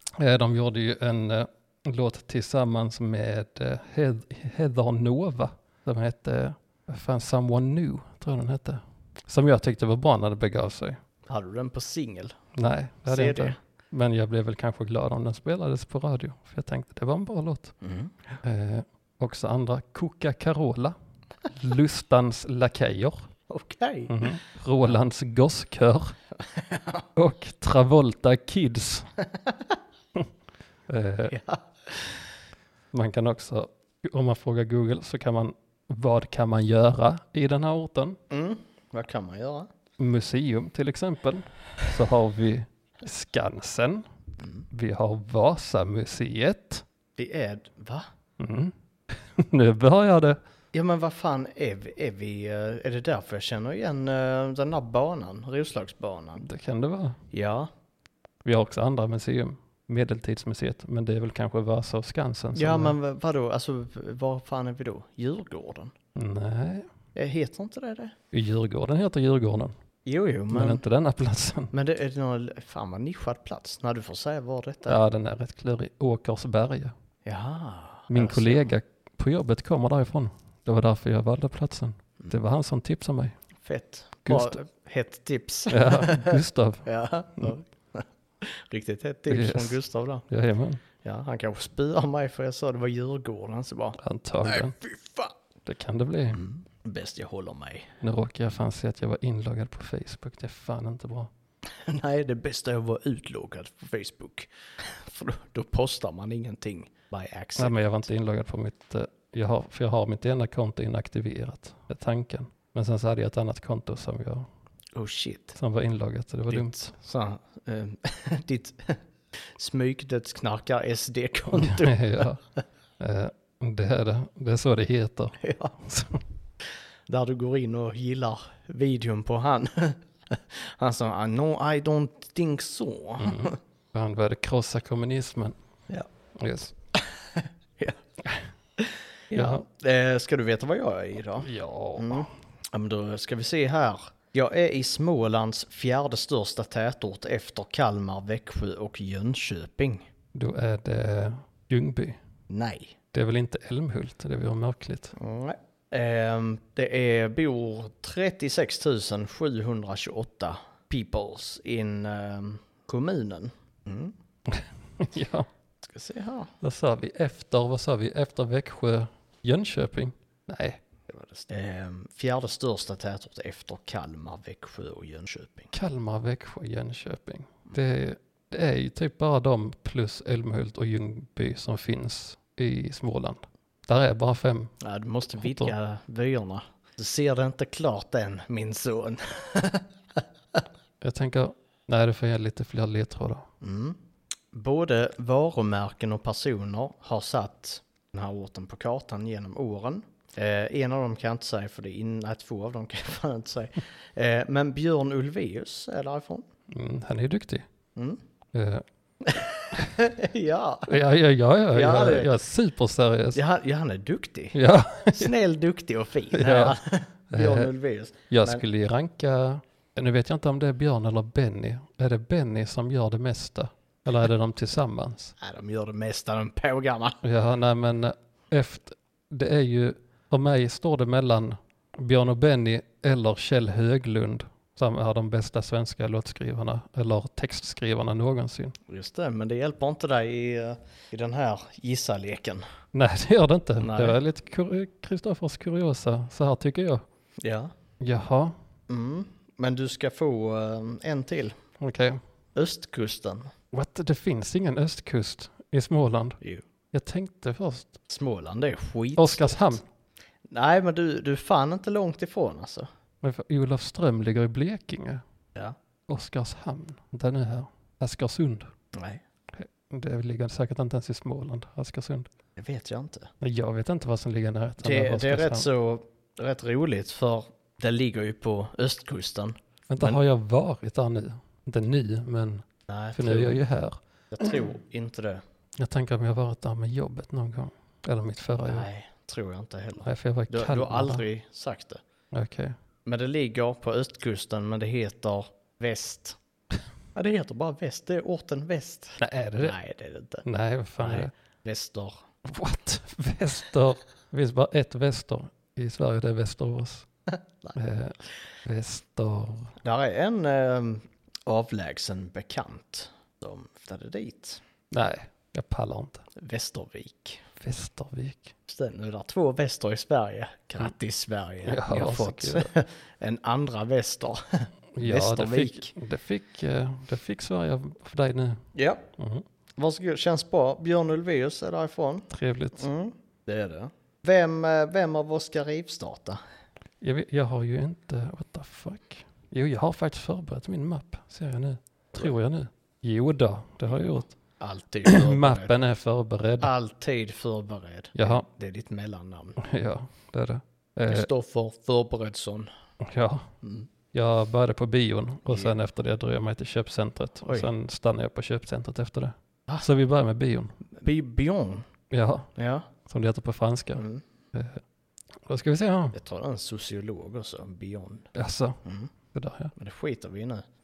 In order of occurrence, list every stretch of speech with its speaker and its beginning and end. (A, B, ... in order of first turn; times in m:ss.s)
0:00.2-0:11.0 A
0:11.3-0:12.4 B
0:12.5-0:17.7 A
0:13.1-0:13.6 B
0:17.8-0:18.1 B
0:18.4-0:20.9 A
0:21.5-0:23.3 A
0:23.5-0:24.1 B
0:24.1-0:26.1 A
0:26.5-0:27.0 B
0:27.1-0:29.1 A
0:29.4-0:29.7 B
0:30.9-0:31.4 A
0:31.3-0:32.3 B
0:32.9-0:38.2 A
0:38.3-0:39.7 B
0:40.0-0:44.0 A
0:44.7-0:46.8 A
0:47.2-0:48.0 B
0:48.4-0:50.4 A
0:50.7-0:56.4 B
0:56.4-0:57.2 A
0:57.3-0:57.7 B
0:58.4-1:03.0 A
1:02.5-1:05.9 B
1:06.1-1:06.9 A
1:07.1-1:08.1 B
1:08.3-1:09.7 A
1:10.0-1:10.8 B
1:10.5-1:11.7 A
1:11.7-1:15.0 B
1:14.9-1:16.9 A
1:17.2-1:18.6 B
1:18.1-1:23.4 A
1:23.6-1:30.2 B
1:24.2-1:24.6 A
1:25.7-1:26.9 A
1:29.3-1:29.8 A
1:30.3-1:30.8 A
1:31.0-1:35.3 B
1:34.0-1:34.8 A
1:35.6-1:36.4 A
1:36.3-1:38.0 B
1:38.0-1:41.3 A
1:41.7-1:47.8 B
1:47.6-1:54.5 A
1:54.9-1:55.6 B
1:55.5-1:56.9 A
1:56.5-2:02.3 B
2:01.5-2:02.4 A
2:03.0-2:06.2 A
2:05.4-2:05.7 B
2:07.1-2:13.6 B
2:13.2-2:15.6 A
2:16.4-2:16.7 A
2:16.9-2:18.0 B
2:18.8-2:30.1 B
2:19.3-2:19.6 A
2:21.4-2:22.3 A
2:30.3-2:32.2 A
2:32.5-2:32.9 B
2:33.1-2:35.2 A
2:35.2-2:44.1 B
2:44.5-2:45.5 A
2:45.8-2:46.5 B
2:46.6-2:50.8 A
2:51.1-2:55.7 B
2:55.7-3:04.7 A
3:04.8-3:10.6 B
3:05.4-3:05.7 A
3:11.0-3:13.5 A
3:13.6-3:14.0 B
3:14.5-3:26.4 B
3:26.7-3:27.7 A
3:28.5-3:28.8 A
3:29.2-3:31.0 B
3:30.9-3:33.4 A
3:31.7-3:32.4 B
3:33.3-3:34.6 B
3:34.5-3:35.3 A
3:35.1-3:38.6 B
3:36.3-3:36.8 A
3:37.3-3:37.7 A
3:38.3-3:45.3 A
3:45.4-3:47.2 B
3:47.2-3:58.8 A
3:58.9-4:02.6 B
4:02.9-4:07.0 A
4:03.8-4:04.2 B
4:07.4-4:07.7 B
4:08.0-4:08.6 A
4:08.9-4:11.6 B
4:11.8-4:12.2 A
4:12.5-4:13.5 B
4:13.7-4:16.4 A
4:16.9-4:18.0 A
4:18.1-4:19.8 B
4:19.2-4:19.8 A
4:20.5-4:22.9 B
4:23.2-4:25.2 A
4:26.1-4:28.7 A
4:28.9-4:29.2 B
4:29.5-4:32.3 A
4:32.6-4:33.3 B
4:33.4-4:35.7 A
4:34.8-4:40.2 B
4:39.9-4:44.5 A
4:42.9-4:43.6 B
4:44.3-4:45.4 B
4:45.8-4:48.9 A
4:48.6-4:52.0 B
4:50.0-4:51.2 A
4:52.3-4:52.8 A
4:53.0-4:56.4 B
4:57.1-5:00.4 B
4:59.2-4:59.8 A
5:00.4-5:01.3 A
5:01.0-5:02.2 B
5:02.4-5:07.1 A
5:07.3-5:07.7 B
5:07.7-5:09.7 A
5:09.8-5:14.6 B
5:14.9-5:16.2 A
5:16.4-5:17.4 B
5:17.6-5:18.5 A
5:18.7-5:25.9 B
5:21.6-5:22.7 A
5:25.0-5:29.4 A
5:28.7-5:29.0 B
5:29.8-5:36.4 B
5:32.3-5:32.9 A
5:37.0-5:44.4 A
5:44.6-5:45.7 B
5:45.0-5:46.7 A
5:46.6-5:49.6 B
5:48.1-5:48.4 A
5:49.6-5:51.3 A
5:51.1-5:52.7 B
5:53.0-5:53.5 A
5:53.6-5:53.9 B
5:54.1-6:00.8 A
5:55.5-5:55.7 B
6:00.9-6:01.8 B
6:02.1-6:02.5 A
6:02.6-6:02.9 B
6:03.0-6:04.8 A
6:04.0-6:04.2 B
6:05.4-6:06.2 A
6:06.1-6:08.3 B
6:08.3-6:09.7 A
6:08.8-6:09.1 B
6:09.8-6:10.6 B